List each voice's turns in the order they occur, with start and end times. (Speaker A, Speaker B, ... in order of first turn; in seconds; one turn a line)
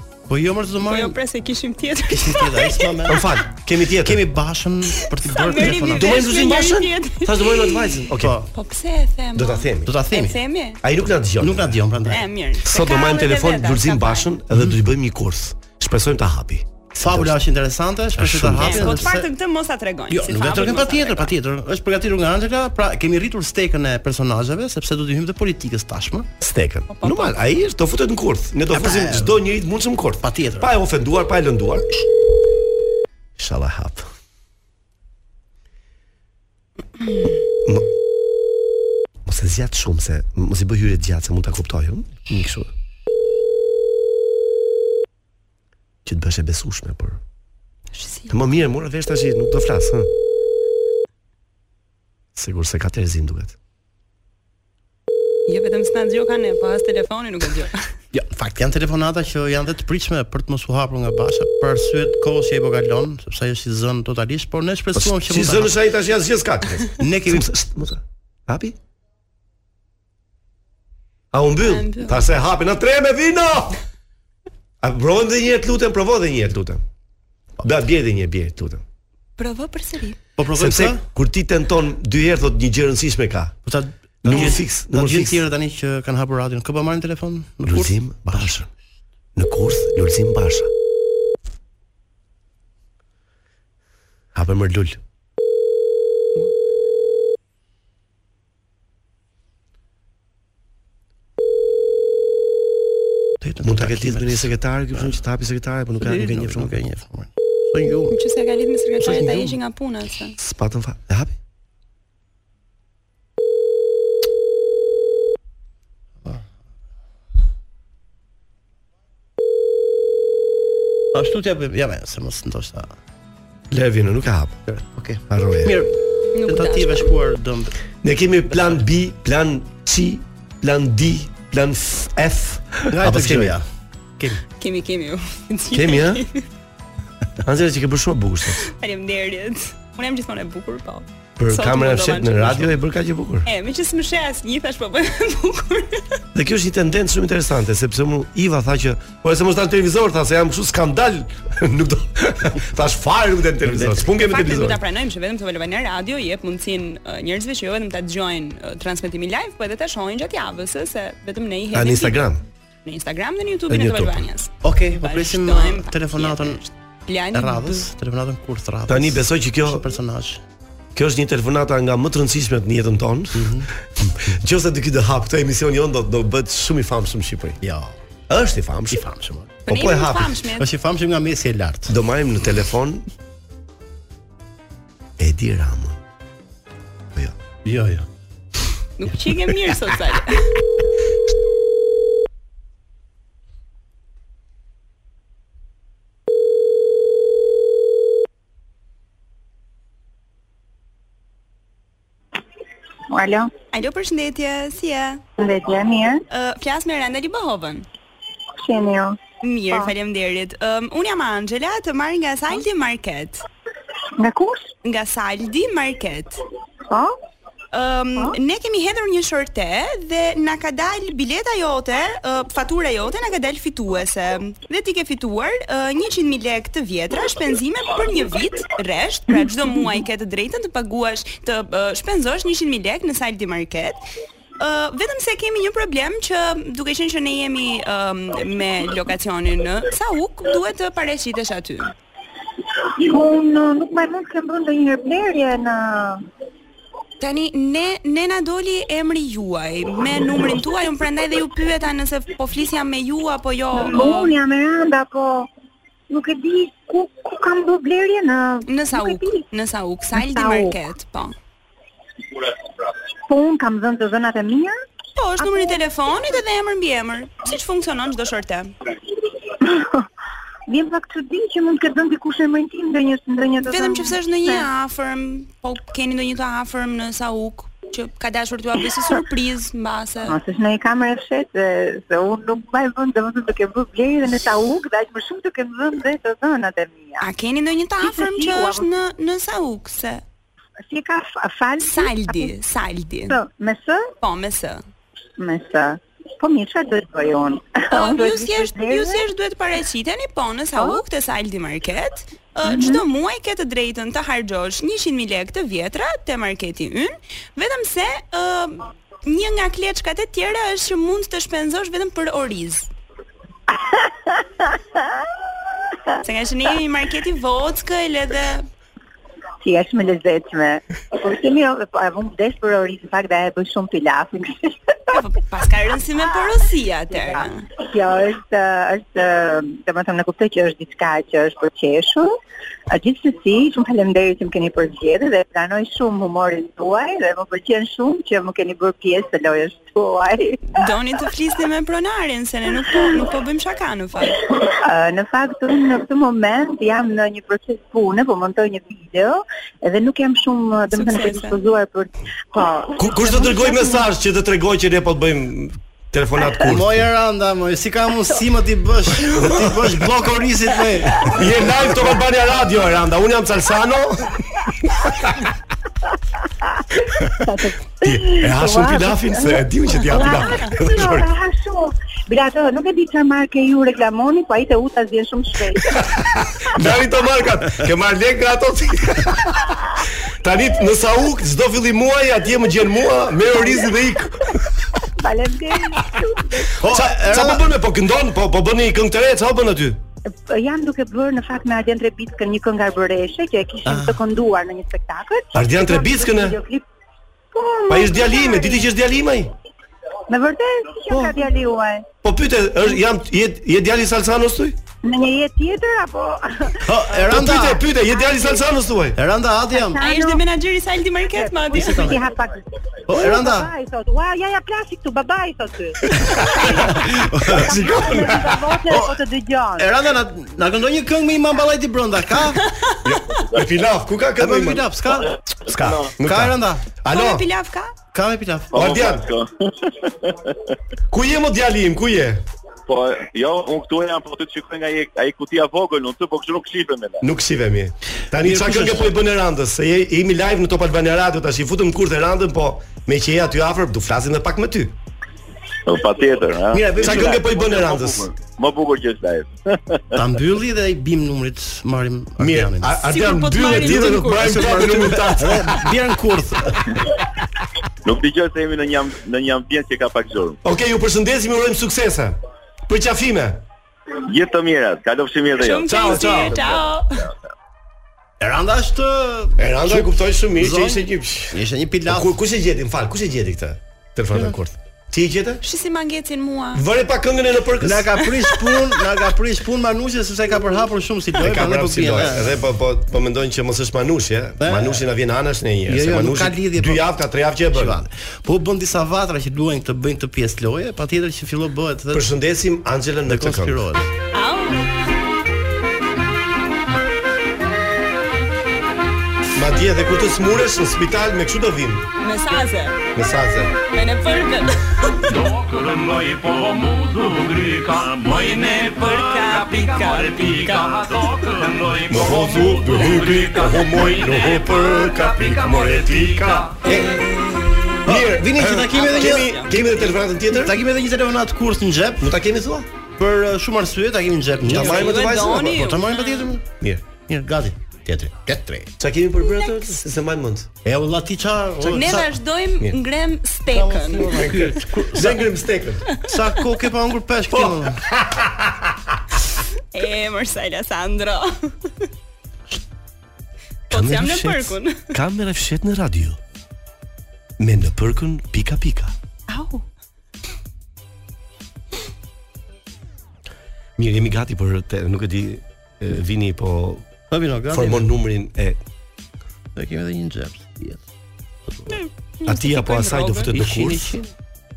Speaker A: 0.3-1.2
Speaker B: 0.8-3.3
Speaker A: 2.1-3.2
Speaker C: 3.1-4.2
Speaker A: 4.0-6.3
Speaker B: 5.2-10.8
Speaker C: 5.6-8.4
Speaker A: 8.2-8.5
Speaker C: 9.3-9.9
Speaker A: 9.8-10.4
Speaker C: 10.8-11.8
Speaker A: 11.4-12.2
Speaker B: 12.1-14.3
Speaker C: 12.6-17.3
Speaker A: 17.0-19.3
Speaker C: 18.2-19.1
Speaker B: 18.6-21.3
Speaker A: 20.1-26.3
Speaker C: 26.4-31.9
Speaker B: 26.9-27.4
Speaker A: 28.7-29.4
Speaker A: 30.2-30.7
Speaker C: 33.4-34.1
Speaker B: 37.0-37.4
Speaker C: 39.2-42.7
Speaker C: 46.0-47.2
Speaker B: 47.9-48.4
Speaker C: 48.3-50.1
Speaker C: 52.4-53.5
Speaker B: 55.5-57.9
Speaker A: 58.1-65.7
Speaker C: 65.0-68.8
Speaker A: 67.0-67.5
Speaker C: 71.3-73.8
Speaker B: 71.6-72.3
Speaker C: 74.8-76.8
Speaker C: 77.6-78.8
Speaker B: 79.4-80.2
Speaker A: 80.4-81.0
Speaker C: 80.6-83.6
Speaker A: 83.7-88.5
Speaker C: 84.2-85.4
Speaker C: 87.7-88.7
Speaker C: 89.4-90.7
Speaker C: 94.3-95.0
Speaker A: 103.4-105.1
Speaker C: 103.6-106.8
Speaker A: 106.0-108.2
Speaker B: 108.1-110.4
Speaker A: 109.0-109.6
Speaker C: 110.4-111.4
Speaker A: 121.1-122.9
Speaker C: 123.7-124.6
Speaker A: 124.7-127.8
Speaker C: 125.3-125.8
Speaker B: 126.3-127.1
Speaker C: 128.0-133.6
Speaker A: 132.9-133.7
Speaker B: 134.6-136.5
Speaker C: 135.7-136.2
Speaker C: 137.4-138.6
Speaker B: 138.6-142.8
Speaker C: 141.4-143.5
Speaker B: 143.4-146.2
Speaker C: 146.3-154.8
Speaker A: 153.7-154.1
Speaker B: 154.2-162.3
Speaker C: 161.7-162.4
Speaker B: 162.8-167.9
Speaker C: 163.7-164.2
Speaker A: 164.6-166.6
Speaker A: 167.3-170.4
Speaker C: 168.9-169.9
Speaker C: 170.9-177.6
Speaker A: 173.3-173.7
Speaker A: 177.6-177.9
Speaker C: 178.3-179.0
Speaker A: 178.9-179.5
Speaker B: 179.7-180.7
Speaker C: 179.7-180.4
Speaker A: 180.6-181.9
Speaker C: 181.9-183.1
Speaker C: 185.2-186.0
Speaker A: 187.7-188.1
Speaker B: 189.0-190.6
Speaker D: 203.1-203.5
Speaker B: 203.7-205.2
Speaker D: 205.4-206.2
Speaker B: 206.3-207.9
Speaker D: 208.6-209.2
Speaker B: 209.4-213.4
Speaker D: 214.2-214.7
Speaker B: 214.8-216.4
Speaker D: 216.9-217.2
Speaker B: 217.7-234.0
Speaker B: 234.6-241.9
Speaker D: 243.0-246.3
Speaker B: 247.2-254.3
Speaker D: 253.8-255.5
Speaker D: 256.1-259.4
Speaker B: 258.7-261.4
Speaker D: 260.1-260.8
Speaker D: 263.3-264.8
Speaker B: 265.2-268.7
Speaker D: 265.4-265.8
Speaker D: 269.6-270.1
Speaker D: 270.7-274.7
Speaker B: 273.6-280.4
Speaker D: 280.3-287.3
Speaker B: 287.2-290.2
Speaker D: 288.0-288.9
Speaker D: 290.9-292.5
Speaker B: 291.8-293.4
Speaker D: 293.3-294.1
Speaker B: 294.2-294.8
Speaker D: 295.4-299.2
Speaker B: 297.9-312.9
Speaker D: 302.6-303.0
Speaker D: 313.9-314.1
Speaker B: 316.2-318.7
Speaker D: 319.6-325.2
Speaker B: 325.1-327.7
Speaker D: 327.8-332.4
Speaker D: 332.9-340.9
Speaker B: 340.8-344.4
Speaker D: 344.6-354.0
Speaker B: 350.9-351.6
Speaker C: 353.0-357.1
Speaker A: 356.7-361.4
Speaker C: 359.3-359.9
Speaker C: 361.3-365.5
Speaker D: 367.4-376.1
Speaker C: 368.0-371.3
Speaker C: 375.9-384.7
Speaker D: 383.5-383.9
Speaker D: 385.2-386.9
Speaker A: 386.8-387.7
Speaker C: 386.9-390.0
Speaker D: 390.3-396.8
Speaker A: 393.9-394.2
Speaker C: 395.6-396.6
Speaker D: 397.5-398.9
Speaker C: 397.9-399.5
Speaker D: 400.3-402.1
Speaker C: 401.1-401.4
Speaker C: 402.2-404.8
Speaker D: 405.0-406.9
Speaker A: 406.9-407.8
Speaker C: 407.3-409.2
Speaker D: 408.1-408.7
Speaker A: 409.2-410.0
Speaker D: 409.7-410.4
Speaker B: 410.0-412.2
Speaker D: 411.3-419.9
Speaker A: 411.8-412.1
Speaker A: 413.1-413.7
Speaker C: 416.2-416.7
Speaker A: 416.8-418.0
Speaker C: 417.5-418.8
Speaker A: 418.9-419.1
Speaker A: 419.8-422.6
Speaker C: 423.0-424.9
Speaker A: 424.4-425.3
Speaker E: 425.3-426.1
Speaker C: 425.7-427.4
Speaker A: 426.2-426.9
Speaker B: 427.1-427.9
Speaker A: 428.1-428.7
Speaker E: 428.7-430.6
Speaker C: 428.7-429.2
Speaker C: 431.1-432.4
Speaker E: 432.9-437.2
Speaker C: 437.2-445.0
Speaker A: 438.4-439.1
Speaker E: 445.9-450.1
Speaker A: 446.7-447.4
Speaker C: 447.0-448.3
Speaker A: 450.1-452.9
Speaker C: 452.4-455.9
Speaker B: 453.0-455.1
Speaker A: 453.7-456.9
Speaker E: 458.0-460.6
Speaker C: 460.6-462.4
Speaker C: 462.9-463.6
Speaker E: 464.3-466.9
Speaker B: 465.6-467.2
Speaker C: 465.9-466.6
Speaker A: 468.4-472.3
Speaker C: 469.6-475.6
Speaker B: 475.6-476.8
Speaker C: 476.7-478.3
Speaker A: 477.8-482.5
Speaker C: 481.4-488.0
Speaker A: 484.6-485.1
Speaker A: 485.9-487.0
Speaker A: 487.7-492.3
Speaker C: 492.1-493.9
Speaker A: 493.3-494.1
Speaker B: 494.3-494.9
Speaker C: 499.6-502.1
Speaker B: 502.2-503.1
Speaker C: 503.1-503.8
Speaker B: 503.9-505.4
Speaker F: 505.3-516.8
Speaker B: 508.2-511.1
Speaker C: 512.1-517.0
Speaker B: 516.8-518.1
Speaker A: 518.0-519.6
Speaker C: 518.1-520.8
Speaker B: 518.9-520.1
Speaker A: 520.5-522.3
Speaker C: 522.2-522.9
Speaker A: 523.2-526.6
Speaker C: 524.6-525.8
Speaker B: 524.7-526.5
Speaker A: 527.3-528.9
Speaker C: 529.0-530.7
Speaker A: 530.9-532.3
Speaker C: 531.9-532.2
Speaker B: 531.9-534.6
Speaker A: 533.7-535.4
Speaker C: 534.4-536.2
Speaker A: 536.2-538.0
Speaker C: 537.5-538.8
Speaker B: 539.9-542.1
Speaker B: 543.9-545.1
Speaker C: 543.9-546.4
Speaker C: 547.6-549.1
Speaker B: 549.5-549.9
Speaker C: 554.0-557.1
Speaker A: 557.3-558.1
Speaker C: 557.7-558.8
Speaker A: 559.8-561.0
Speaker B: 561.9-563.5
Speaker C: 562.5-564.2
Speaker A: 563.5-564.3